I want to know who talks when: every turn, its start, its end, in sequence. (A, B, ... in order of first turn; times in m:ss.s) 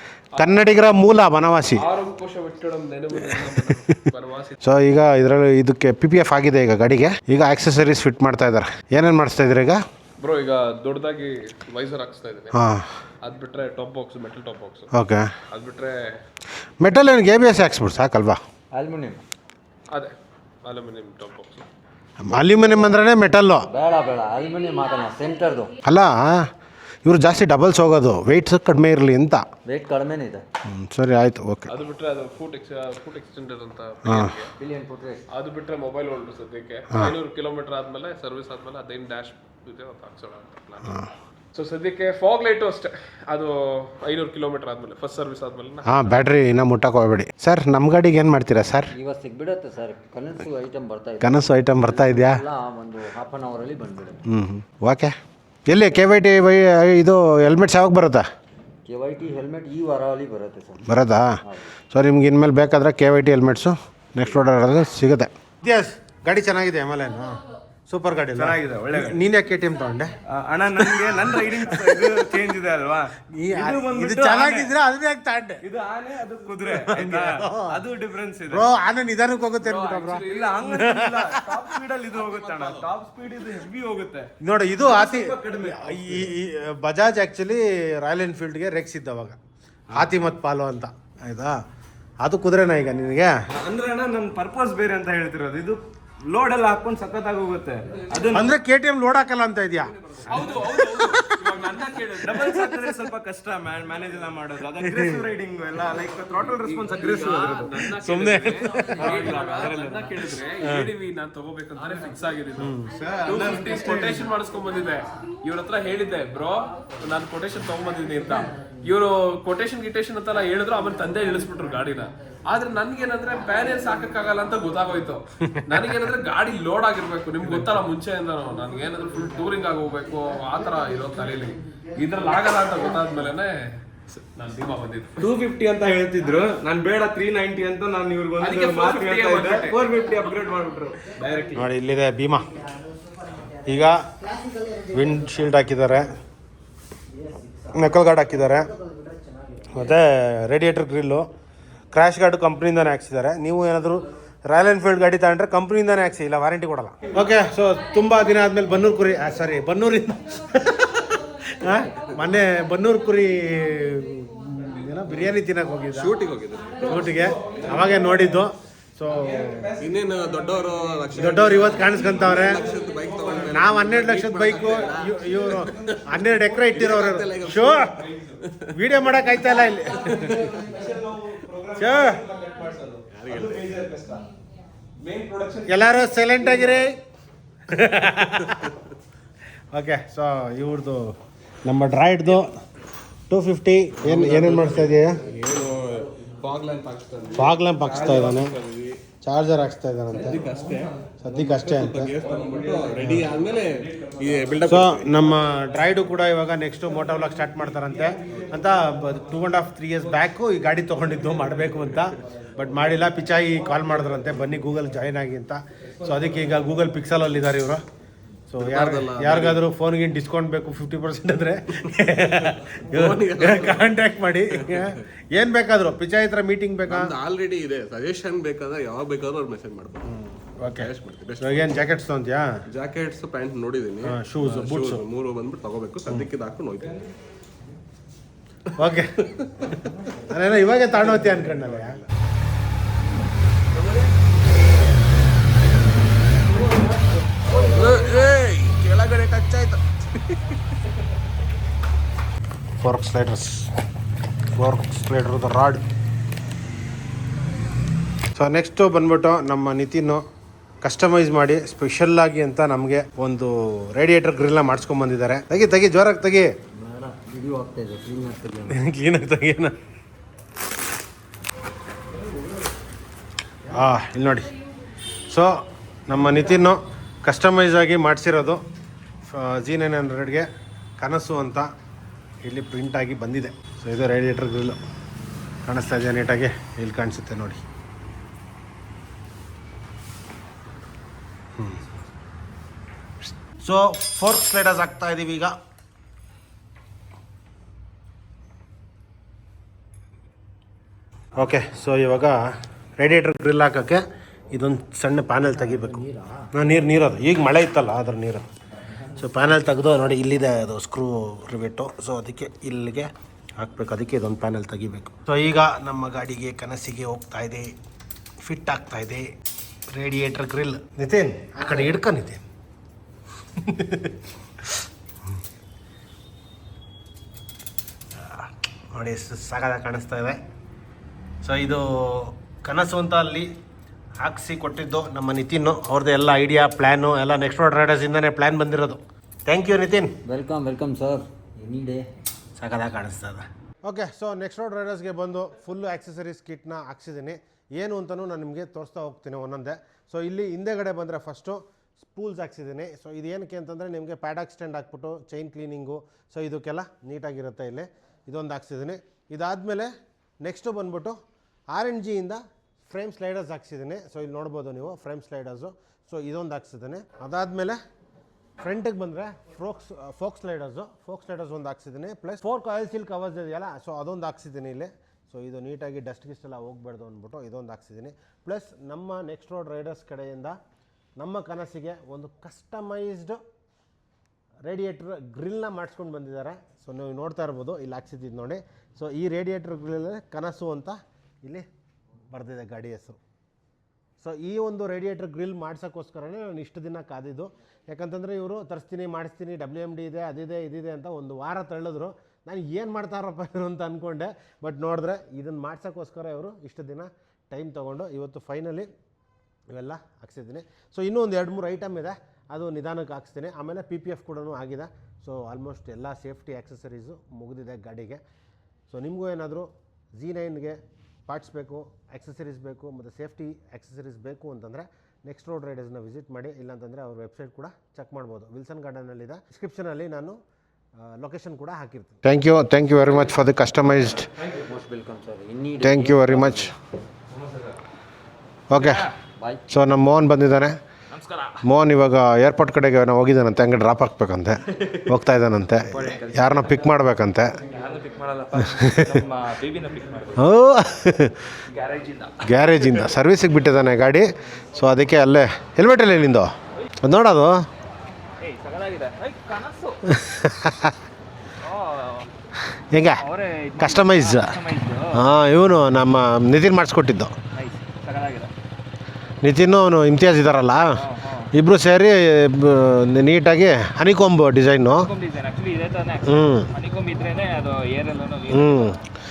0:00.4-0:00.8 A
0:00.4-0:01.8 B
0:01.7-0:04.6 A
0:03.3-0:03.9 B
0:04.6-0:09.8 B
0:10.2-0:12.6 A
0:12.5-0:12.9 B
0:13.2-0:14.9 A
0:14.9-0:15.3 B
0:15.5-0:16.2 A
0:16.8-0:18.4 B
0:18.7-0:19.2 C
0:20.6-0:21.7 A
0:22.2-0:23.7 B
0:22.5-0:23.0 C
0:23.7-0:25.8 C
0:25.8-0:26.5 B
0:27.0-0:29.4 B
0:29.6-0:30.4 C
0:30.7-0:31.7 B
0:31.7-0:34.5 A
0:34.0-0:34.4 B
0:34.6-0:35.2 C
0:35.3-0:46.2 A
0:40.8-0:41.1 B
0:45.9-0:48.9 B
0:48.9-0:54.2 C
0:51.2-0:52.4 B
0:54.3-0:55.2 B
0:55.7-0:58.2 B
0:58.9-1:00.9 C
1:00.9-1:01.4 B
1:01.9-1:10.1 B
1:08.3-1:09.2 D
1:10.3-1:14.7 D
1:13.3-1:15.6 B
1:15.6-1:18.7 D
1:16.7-1:17.8 B
1:18.5-1:21.7 B
1:19.6-1:20.6 A
1:20.3-1:26.3 D
1:22.4-1:22.6 A
1:24.4-1:29.4 B
1:29.9-1:31.6 B
1:32.2-1:33.3 B
1:33.5-1:38.5 D
1:38.3-1:39.9 B
1:40.0-1:40.6 D
1:40.3-1:42.7 A
1:40.8-1:41.6 B
1:42.2-1:47.9 D
1:44.9-1:45.3 B
1:46.6-2:15.3 A
1:47.9-1:49.3 B
1:48.8-1:50.3 D
1:50.6-1:50.9 B
1:52.6-1:53.0 B
1:52.9-1:54.3 D
2:05.4-2:05.9 B
2:15.2-2:21.5 D
2:18.4-2:20.4 A
2:21.2-2:21.7 A
2:21.6-2:22.5 B
2:22.7-2:25.1 C
2:23.6-2:24.1 B
2:24.9-2:26.1 B
2:27.1-2:27.9 C
2:27.7-2:28.7 B
2:28.5-2:29.9 C
2:29.7-2:31.3 B
2:31.9-2:46.2 B
2:45.9-2:47.0 E
2:46.8-2:49.7 B
2:47.4-2:48.3 D
2:49.2-2:51.7 D
2:49.8-2:58.7 E
2:51.1-2:52.7 B
2:52.9-2:53.6 D
2:53.4-2:58.0 B
2:54.8-2:55.4 D
2:58.0-2:58.4 D
2:58.7-3:00.4 B
2:59.9-3:04.3 D
3:00.0-3:00.4 E
3:01.8-3:02.2 B
3:03.1-3:03.5 E
3:05.0-3:06.0 D
3:05.7-3:07.0 B
3:07.7-3:08.8 B
3:09.7-3:12.5 B
3:13.3-3:15.2 B
3:14.0-3:14.7 E
3:15.3-3:19.0 E
3:16.6-3:17.2 A
3:17.4-3:18.6 B
3:17.9-3:18.5 A
3:19.2-3:20.5 B
3:20.4-3:20.9 E
3:21.2-3:22.2 B
3:21.6-3:25.2 E
3:22.2-3:24.7 D
3:23.0-3:23.3 B
3:24.6-3:37.8 B
3:31.8-3:32.1 E
3:38.5-3:47.2 B
3:38.6-3:39.6 E
3:42.4-3:45.0 E
3:46.9-3:50.0 E
3:50.1-3:52.5 B
3:50.7-3:51.8 E
3:52.7-3:57.1 E
3:54.0-3:55.0 B
3:58.8-3:59.3 B
4:00.3-4:02.0 B
4:01.6-4:02.0 E
4:07.6-4:10.5 E
4:12.8-4:13.7 B
4:14.5-4:15.8 B
4:18.4-4:20.2 B
4:20.8-4:26.5 B
4:26.7-4:28.8 C
4:28.7-4:29.8 B
4:33.7-4:34.5 B
4:35.3-4:38.6 B
4:39.3-4:40.5 B
4:41.0-4:41.7 B
4:42.4-4:44.8 B
4:45.6-4:47.6 B
4:53.6-4:55.6 B
5:01.4-5:02.4 B
5:03.0-5:08.5 B
5:05.7-5:06.5 C
5:09.1-5:17.7 B
5:18.4-5:19.3 B
5:19.9-5:22.4 B
5:23.6-5:24.2 B
5:28.2-5:30.4 B
5:31.4-5:33.5 B
5:34.2-5:40.2 B
5:40.2-5:42.1 C
5:42.6-5:59.9 B
6:00.4-6:01.2 B
6:01.7-6:07.8 B
6:08.6-6:20.6 B
6:21.2-6:23.4 B
6:24.6-6:31.7 B
6:32.3-6:33.2 B
6:34.2-6:48.9 B
6:49.7-6:58.2 B
6:58.9-7:10.4 B
7:11.0-7:14.3 B
7:14.5-7:16.7 C
7:15.8-7:16.7 B
7:18.7-7:19.1 B
7:18.7-7:19.1 F
7:19.4-7:19.6 C
7:19.7-7:20.8 B
7:21.1-7:21.6 F
7:21.6-7:27.5 B
7:25.9-7:26.8 F
7:27.6-7:30.4 F
7:28.7-7:29.0 B
7:30.4-7:31.5 B
7:31.7-7:33.0 F
7:32.4-7:36.5 B
7:37.0-7:37.7 B
7:38.4-7:40.0 F
7:40.1-7:41.0 B
7:41.6-7:42.3 F
7:42.9-7:43.2 B
7:43.2-7:45.2 F
7:43.8-7:44.6 B
7:45.2-7:47.3 B
7:47.6-7:48.5 F
7:49.4-7:51.0 B
7:51.0-7:51.5 F
7:51.5-7:55.1 B
7:55.0-7:59.0 F
7:56.2-7:56.7 B
7:58.5-7:59.0 B